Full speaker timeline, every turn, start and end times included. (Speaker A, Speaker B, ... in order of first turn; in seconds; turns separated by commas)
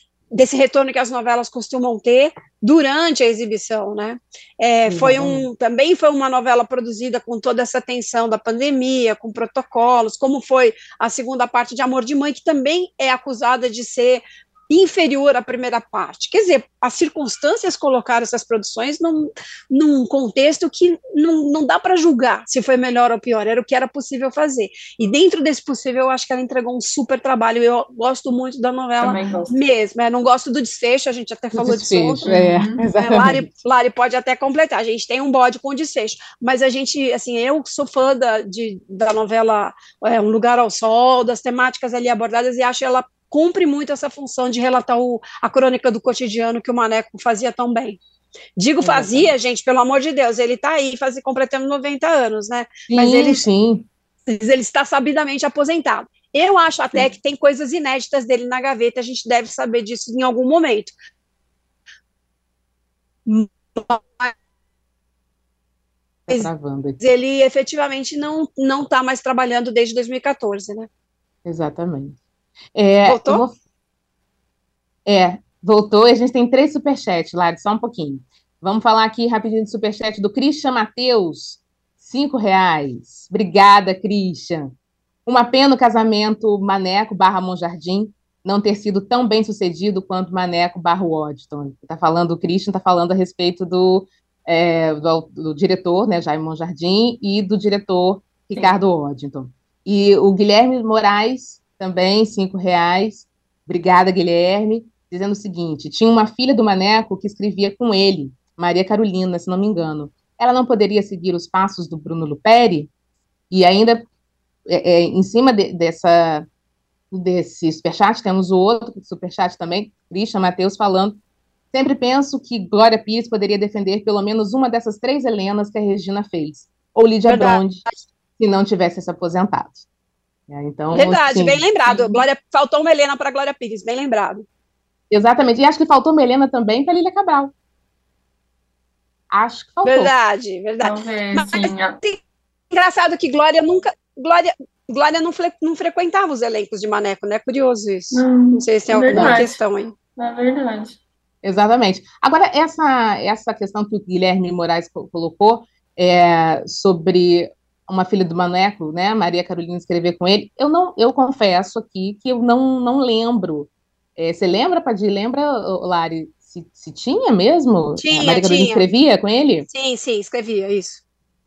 Speaker A: 0.3-32.4, Speaker B: 4.9-5.5, Speaker C: 29.0-29.6, Speaker B: 31.5-33.4, Speaker C: 32.2-32.8, Speaker A: 32.9-48.0, Speaker A: 48.6-53.4, Speaker B: 48.8-49.3, Speaker B: 52.9-53.9, Speaker A: 54.2-60.9, Speaker A: 63.2-64.3, Speaker B: 66.3-67.0, Speaker A: 66.3-70.9, Speaker B: 71.4-72.2, Speaker B: 72.8-73.5, Speaker A: 73.0-73.4, Speaker B: 75.0-84.7, Speaker B: 85.2-112.9, Speaker B: 113.5-114.0, Speaker B: 114.7-116.5, Speaker B: 117.1-121.2, Speaker B: 121.7-127.8, Speaker A: 127.3-128.0, Speaker B: 128.4-129.8, Speaker B: 130.5-132.2, Speaker A: 130.9-134.4, Speaker B: 135.1-137.5, Speaker B: 139.3-140.1, Speaker A: 139.8-149.9, Speaker C: 140.8-142.0, Speaker C: 148.1-149.5, Speaker B: 149.1-149.4, Speaker C: 150.2-151.0, Speaker B: 151.4-169.7, Speaker A: 168.0-168.8, Speaker A: 169.7-171.0